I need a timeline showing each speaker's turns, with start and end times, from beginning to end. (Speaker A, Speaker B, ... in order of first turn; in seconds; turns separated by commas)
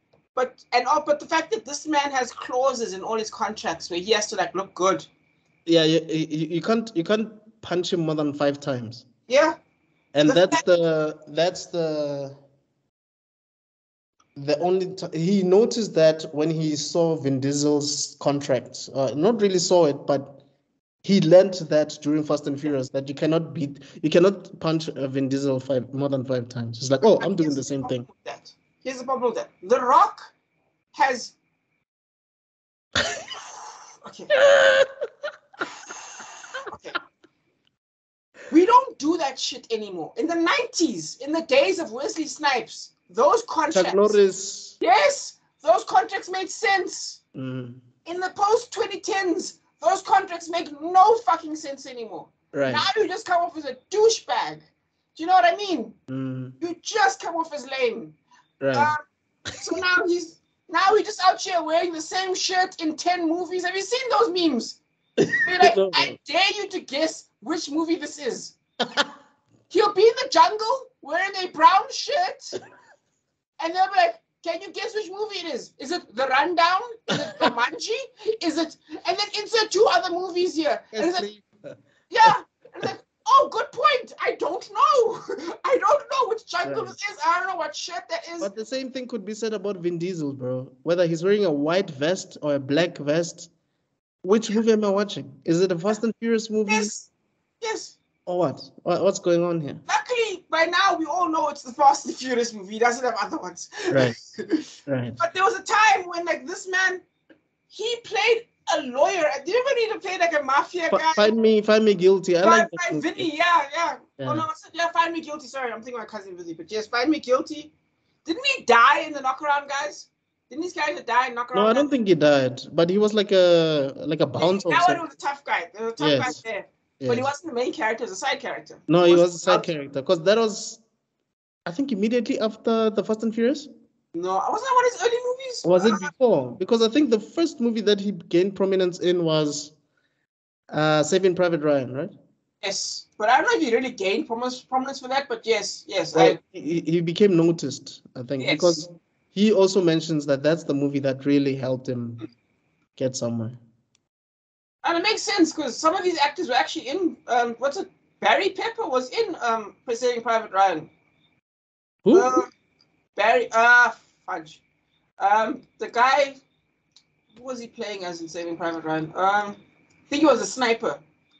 Speaker A: 0.3-5.1, Speaker B: 5.7-9.1, Speaker A: 9.3-9.6, Speaker B: 10.1-12.4, Speaker A: 10.3-10.6, Speaker B: 14.4-20.4, Speaker B: 21.0-28.1, Speaker A: 27.1-30.3, Speaker A: 30.9-31.4, Speaker A: 34.0-34.4, Speaker B: 34.3-34.9, Speaker A: 36.6-37.0, Speaker A: 38.5-44.2, Speaker B: 43.7-44.8, Speaker A: 44.8-47.2, Speaker B: 47.4-47.8, Speaker A: 48.0-54.6, Speaker B: 52.5-52.9, Speaker A: 55.2-56.0, Speaker B: 56.1-56.6, Speaker A: 56.6-58.2, Speaker B: 58.6-58.9, Speaker A: 58.7-59.0, Speaker A: 59.5-64.8, Speaker B: 65.2-66.2, Speaker A: 65.4-68.6, Speaker A: 69.7-72.6, Speaker A: 73.6-81.3, Speaker B: 77.1-77.5, Speaker B: 80.9-82.3, Speaker A: 82.1-88.5, Speaker B: 86.7-86.9, Speaker B: 88.4-93.5, Speaker B: 94.2-96.9, Speaker A: 96.7-97.1, Speaker A: 97.6-98.0, Speaker B: 98.3-99.8, Speaker A: 99.9-104.7, Speaker B: 103.9-104.2, Speaker B: 104.9-105.2, Speaker A: 105.2-107.0, Speaker A: 107.7-111.3, Speaker B: 110.9-113.3, Speaker A: 112.4-117.7, Speaker B: 114.2-114.5, Speaker A: 118.2-121.9, Speaker B: 121.5-125.0, Speaker A: 124.4-129.7, Speaker B: 126.0-126.4, Speaker B: 127.0-127.3, Speaker B: 128.9-130.8, Speaker B: 131.7-133.7, Speaker A: 134.1-136.1, Speaker B: 135.6-139.7, Speaker B: 140.7-142.1, Speaker A: 142.6-146.4, Speaker B: 146.1-152.2, Speaker A: 148.4-148.8, Speaker B: 153.0-153.6, Speaker A: 154.8-160.9, Speaker B: 162.0-162.4, Speaker A: 162.1-162.5, Speaker A: 163.2-164.6, Speaker A: 165.2-166.4, Speaker A: 167.4-171.0